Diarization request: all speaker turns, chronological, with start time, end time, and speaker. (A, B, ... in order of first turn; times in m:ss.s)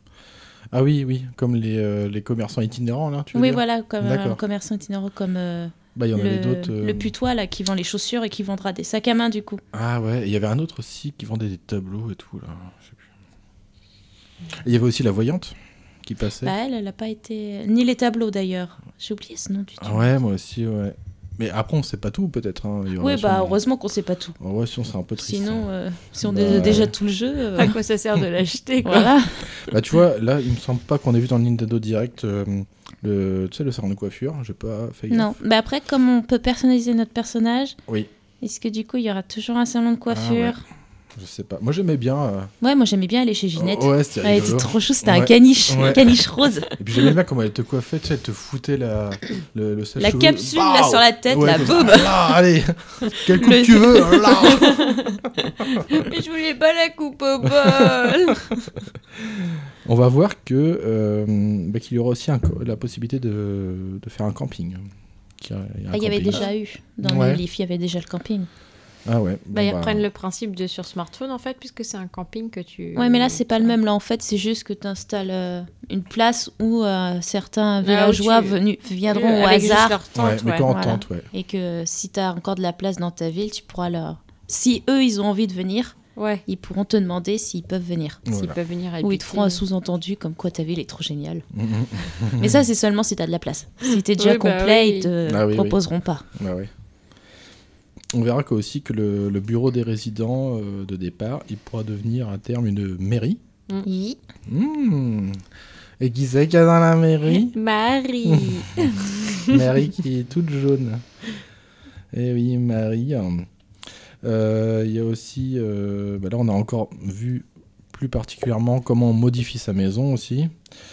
0:00.7-0:04.4 A
0:03.3-0:09.6 B
0:06.0-0:07.1 A
0:09.7-0:13.0 A
0:14.5-0:16.5 A
0:16.4-0:20.1 B
0:19.8-0:23.6 A
0:23.0-0:24.4 B
0:24.4-0:25.7 A
0:25.2-0:27.8 B
0:26.2-0:26.9 A
0:27.6-0:29.2 C
0:28.8-0:29.5 B
0:29.5-0:35.3 A
0:35.1-0:37.8 B
0:38.4-0:40.6 B
0:40.1-0:40.6 A
0:41.1-0:42.5 A
0:42.6-0:46.7 B
0:43.6-0:46.1 A
0:46.8-0:55.0 A
0:50.0-0:52.4 B
0:53.1-0:54.7 B
0:55.9-0:58.5 C
0:59.2-1:06.5 A
1:05.9-1:08.5 B
1:07.0-1:07.4 A
1:09.0-1:10.0 A
1:09.5-1:13.7 C
1:13.0-1:20.0 B
1:17.8-1:20.7 C
1:20.1-1:21.3 A
1:20.6-1:25.9 B
1:26.2-1:26.4 C
1:26.4-1:28.2 B
1:28.2-1:28.6 A
1:28.3-1:29.6 C
1:29.0-1:31.4 B
1:31.5-1:32.6 A
1:32.4-1:36.2 B
1:33.8-1:35.1 C
1:35.2-1:35.8 A
1:36.3-1:36.7 A
1:38.1-1:43.4 A
1:43.8-1:44.2 B
1:44.5-1:45.4 A
1:46.0-1:47.6 A
1:47.3-1:49.5 C
1:48.2-1:48.6 A
1:49.4-1:51.0 A
1:52.1-1:53.5 A
1:54.2-2:00.5 A